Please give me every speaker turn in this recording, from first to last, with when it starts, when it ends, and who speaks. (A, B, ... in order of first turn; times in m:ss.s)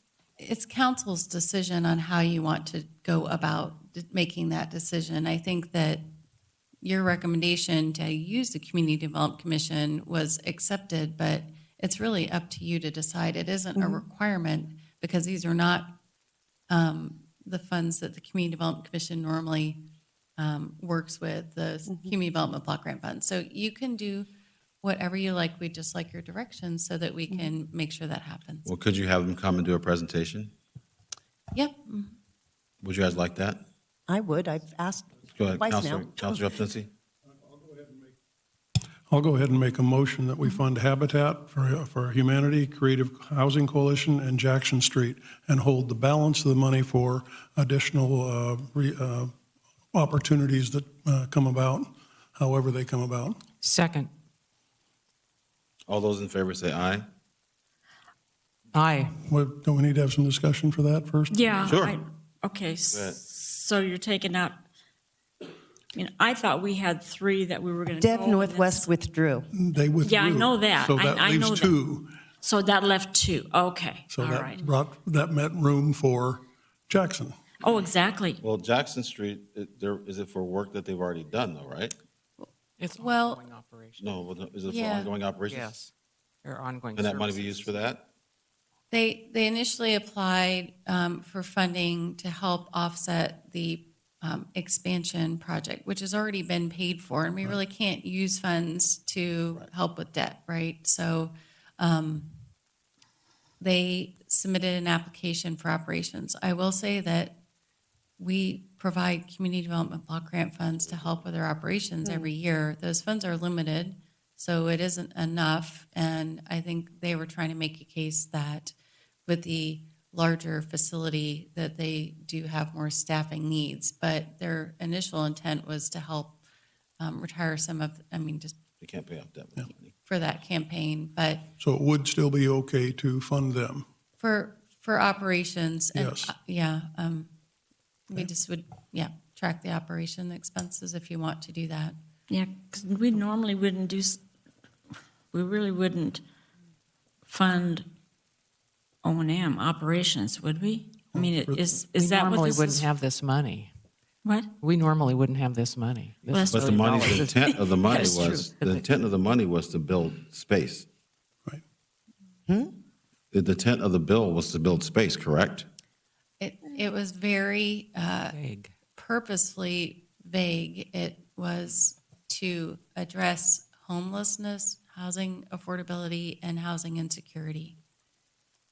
0:00.4-0:06.0 A
0:06.8-0:15.9 A
0:13.8-0:14.0 B
0:16.7-0:19.8 A
0:20.4-0:24.3 A
0:24.8-0:28.7 A
0:28.7-0:30.5 C
0:31.5-0:32.2 A
0:32.8-0:33.6 C
0:34.1-0:36.4 B
0:35.4-0:36.9 C
0:37.4-0:38.1 D
0:39.1-0:49.3 D
0:49.9-0:53.4 D
0:53.6-0:54.1 E
0:55.9-0:57.1 C
0:58.7-0:59.2 E
0:59.2-1:01.6 D
1:01.3-1:04.6 F
1:01.6-1:02.0 C
1:02.9-1:03.2 C
1:05.9-1:08.9 F
1:08.0-1:09.5 B
1:09.5-1:12.2 D
1:10.0-1:11.8 F
1:12.4-1:14.6 F
1:14.1-1:17.3 D
1:17.6-1:18.4 F
1:18.4-1:21.9 C
1:22.4-1:23.4 A
1:22.8-1:24.0 E
1:24.0-1:25.7 C
1:24.7-1:25.1 A
1:25.5-1:25.9 E
1:26.4-1:27.8 E
1:27.0-1:28.0 C
1:28.9-1:42.3 A
1:43.6-1:47.4 A
1:48.2-1:58.8 A
1:50.8-1:51.2 C
1:52.0-1:52.3 B
1:59.3-2:06.4 A
2:07.0-2:08.6 A
2:08.8-2:09.9 C
2:10.0-2:11.5 A
2:11.6-2:13.8 D
2:14.2-2:17.3 A
2:15.9-2:16.3 D
2:18.1-2:22.0 A
2:22.3-2:24.2 F
2:25.3-2:26.2 F
2:27.3-2:27.9 F
2:29.0-2:32.9 F
2:31.1-2:31.6 D
2:32.0-2:33.7 E
2:34.2-2:34.5 F
2:34.6-2:38.8 E
2:36.3-2:38.3 F
2:36.5-2:40.9 C
2:43.3-2:45.7 C
2:46.4-2:48.4 A
2:48.3-2:48.7 E
2:49.0-2:57.8 A